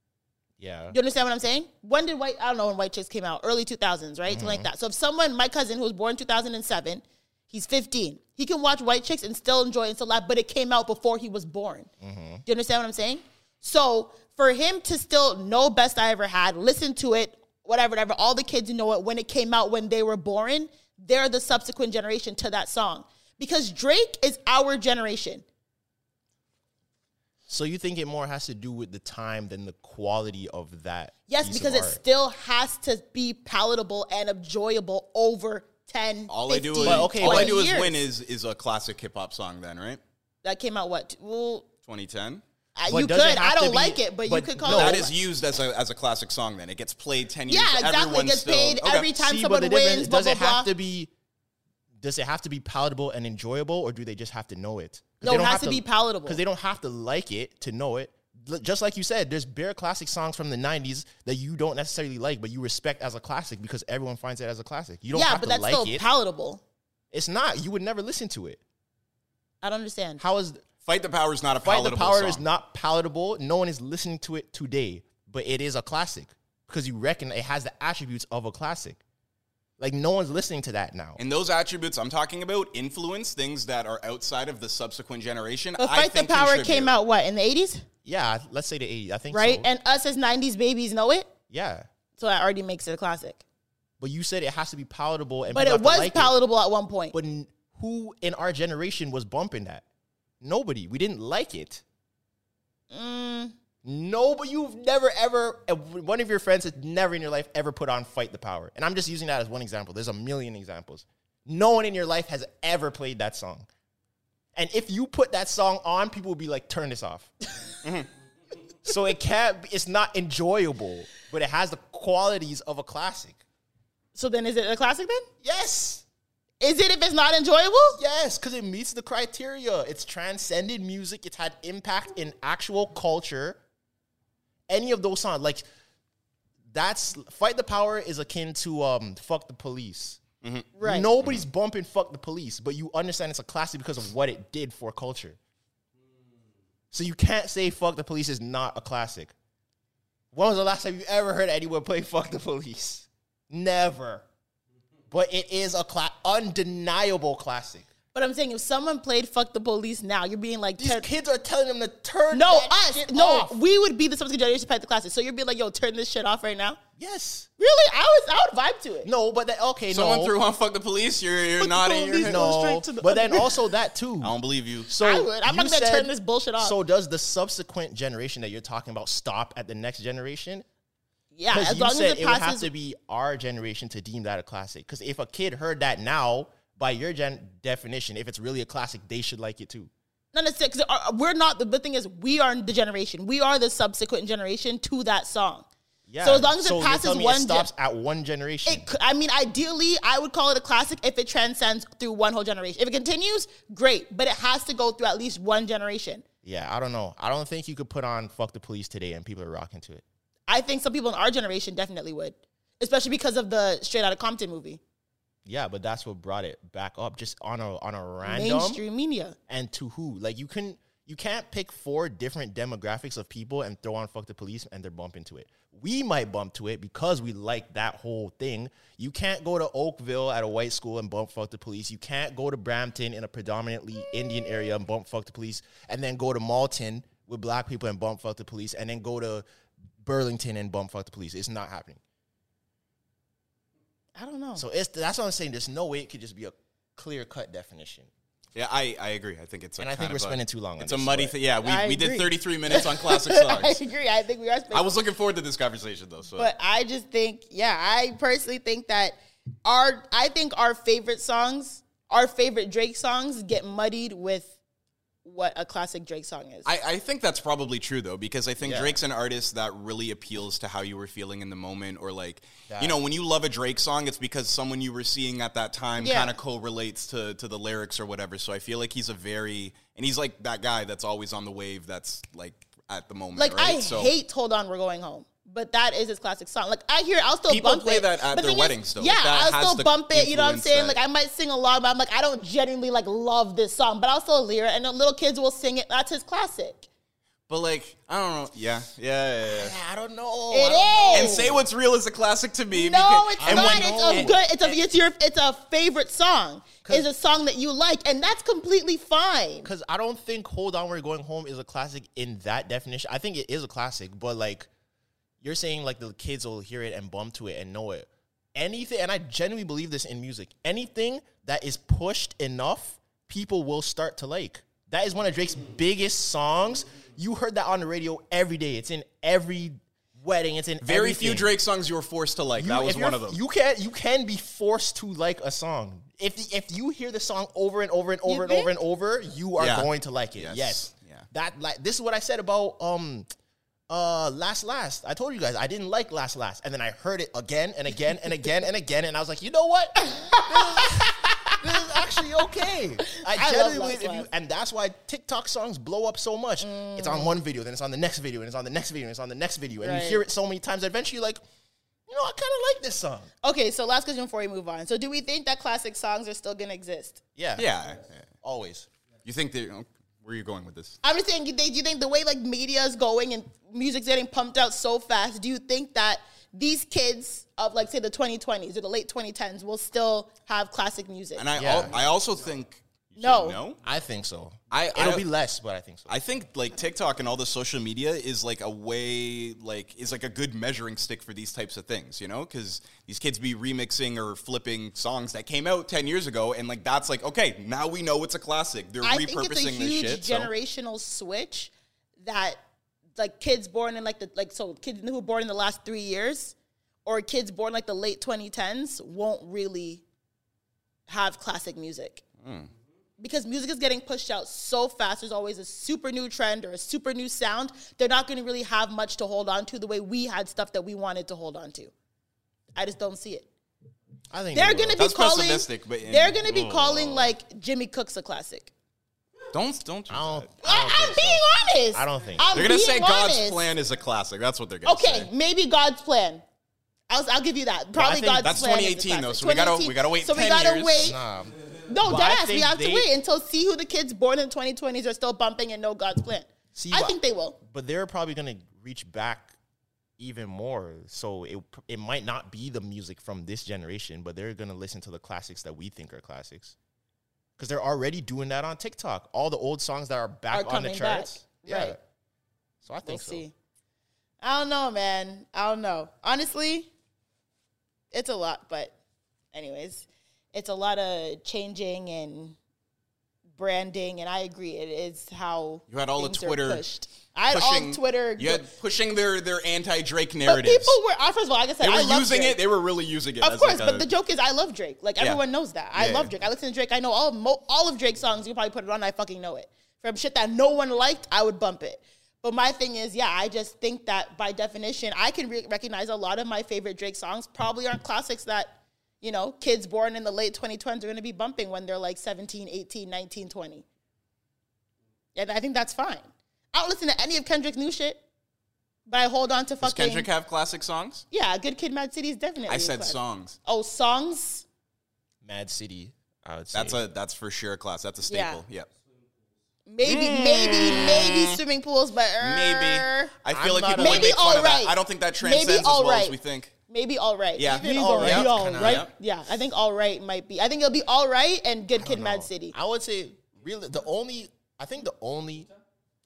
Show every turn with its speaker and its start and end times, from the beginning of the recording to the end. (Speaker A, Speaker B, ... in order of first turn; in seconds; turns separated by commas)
Speaker A: 0.6-1.0, Speaker B: 0.9-11.9, Speaker A: 4.3-4.7, Speaker A: 12.0-12.4, Speaker B: 12.5-25.4, Speaker A: 27.5-32.0, Speaker B: 31.3-38.0, Speaker C: 36.3-40.0, Speaker A: 36.8-37.6, Speaker B: 40.4-41.7, Speaker C: 41.9-42.4, Speaker B: 42.8-45.1, Speaker A: 42.9-45.1, Speaker C: 44.7-49.1, Speaker B: 47.5-50.7, Speaker A: 49.0-51.1, Speaker A: 52.0-66.0, Speaker B: 55.2-56.4, Speaker B: 65.1-66.6, Speaker A: 67.1-68.6, Speaker B: 69.6-70.2, Speaker A: 70.2-70.6, Speaker C: 70.9-72.4, Speaker A: 71.6-79.0, Speaker A: 79.8-81.2, Speaker C: 81.2-86.9, Speaker B: 85.8-87.8, Speaker A: 88.0-89.7, Speaker B: 89.3-91.3, Speaker A: 91.5-91.9, Speaker B: 92.2-93.4, Speaker A: 94.0-96.4, Speaker B: 95.5-97.2, Speaker A: 97.1-99.8, Speaker A: 100.4-101.8, Speaker B: 102.9-103.5, Speaker A: 103.8-113.7, Speaker A: 114.5-117.3, Speaker A: 118.8-123.4, Speaker B: 124.2-125.3, Speaker A: 125.4-126.0, Speaker B: 126.6-128.0, Speaker A: 128.0-133.6, Speaker A: 134.7-135.6, Speaker A: 136.7-140.2, Speaker C: 140.4-140.7, Speaker B: 140.8-141.1, Speaker A: 140.8-145.4, Speaker A: 146.9-149.3, Speaker A: 150.3-154.2, Speaker A: 155.1-157.9, Speaker B: 158.1-161.1, Speaker A: 160.8-163.6, Speaker B: 162.3-166.8, Speaker A: 167.0-167.5, Speaker B: 167.6-169.1, Speaker A: 169.0-170.3, Speaker C: 169.9-172.7, Speaker B: 171.6-173.5, Speaker A: 172.2-180.7, Speaker C: 174.2-174.9, Speaker B: 175.0-176.8, Speaker B: 181.3-182.7, Speaker A: 181.5-189.9, Speaker B: 190.3-195.7, Speaker A: 196.1-198.9, Speaker B: 196.2-197.7, Speaker B: 198.7-206.2, Speaker A: 206.4-210.0, Speaker B: 210.5-214.8, Speaker A: 215.4-218.8, Speaker B: 218.2-219.4, Speaker A: 219.5-239.4, Speaker A: 240.0-242.0, Speaker B: 244.2-244.6, Speaker A: 244.6-248.1, Speaker C: 248.6-253.8, Speaker A: 249.8-251.4, Speaker B: 251.6-254.9, Speaker C: 254.7-256.5, Speaker B: 256.4-264.5, Speaker B: 265.2-266.7, Speaker C: 266.6-284.1, Speaker A: 268.6-269.0, Speaker A: 272.7-273.0, Speaker B: 276.0-276.3, Speaker B: 283.4-296.9, Speaker C: 287.5-291.0, Speaker C: 297.5-299.8, Speaker A: 299.4-301.6, Speaker B: 300.5-301.5, Speaker C: 301.1-304.7, Speaker B: 302.7-309.7, Speaker A: 303.4-304.4, Speaker A: 309.6-314.7, Speaker A: 315.4-331.6, Speaker C: 330.8-333.4, Speaker A: 332.6-343.3, Speaker B: 338.3-338.7, Speaker C: 339.6-341.3, Speaker A: 343.9-361.4, Speaker B: 350.2-351.0, Speaker B: 353.1-354.3, Speaker B: 356.6-357.4, Speaker B: 359.8-360.2, Speaker A: 362.1-363.3, Speaker B: 363.4-367.2, Speaker A: 367.4-367.7, Speaker C: 367.6-368.3, Speaker A: 368.4-368.9, Speaker C: 369.2-371.0, Speaker B: 371.0-381.5, Speaker C: 381.4-383.8, Speaker A: 381.6-381.9, Speaker B: 383.2-383.6, Speaker A: 383.8-386.2, Speaker C: 384.7-385.3, Speaker C: 386.1-400.5, Speaker B: 399.0-402.6, Speaker B: 403.2-406.5, Speaker B: 407.1-410.0, Speaker B: 411.1-412.2, Speaker C: 412.4-412.7, Speaker B: 413.2-421.9, Speaker B: 422.8-423.5, Speaker A: 424.3-425.0, Speaker B: 424.5-428.7, Speaker C: 425.0-427.3, Speaker C: 429.5-430.5, Speaker A: 430.1-432.8, Speaker B: 430.6-433.6, Speaker C: 432.5-435.3, Speaker B: 434.9-436.4, Speaker B: 437.1-441.2, Speaker C: 438.0-441.1, Speaker A: 441.0-443.1, Speaker B: 441.9-447.6, Speaker A: 446.8-449.6, Speaker A: 450.2-456.8, Speaker A: 457.6-462.0, Speaker B: 460.5-462.0, Speaker A: 462.8-463.4, Speaker B: 463.1-463.5, Speaker B: 464.4-466.9, Speaker B: 468.1-468.9, Speaker B: 469.5-472.6, Speaker B: 473.6-478.7, Speaker C: 475.9-476.9, Speaker C: 477.5-481.0, Speaker B: 480.5-482.6, Speaker C: 481.8-484.1, Speaker B: 483.4-503.9, Speaker C: 485.9-486.3, Speaker B: 505.4-508.2, Speaker B: 509.1-510.3, Speaker C: 509.8-511.3, Speaker B: 511.3-514.6, Speaker C: 512.7-513.6, Speaker A: 515.4-517.0, Speaker C: 516.7-518.9, Speaker B: 518.3-518.6, Speaker B: 519.9-523.3, Speaker C: 520.0-521.6, Speaker C: 522.4-526.8, Speaker A: 523.5-524.6, Speaker B: 524.0-526.4, Speaker B: 526.9-532.8, Speaker C: 527.6-529.1, Speaker A: 527.6-529.1, Speaker A: 532.0-535.7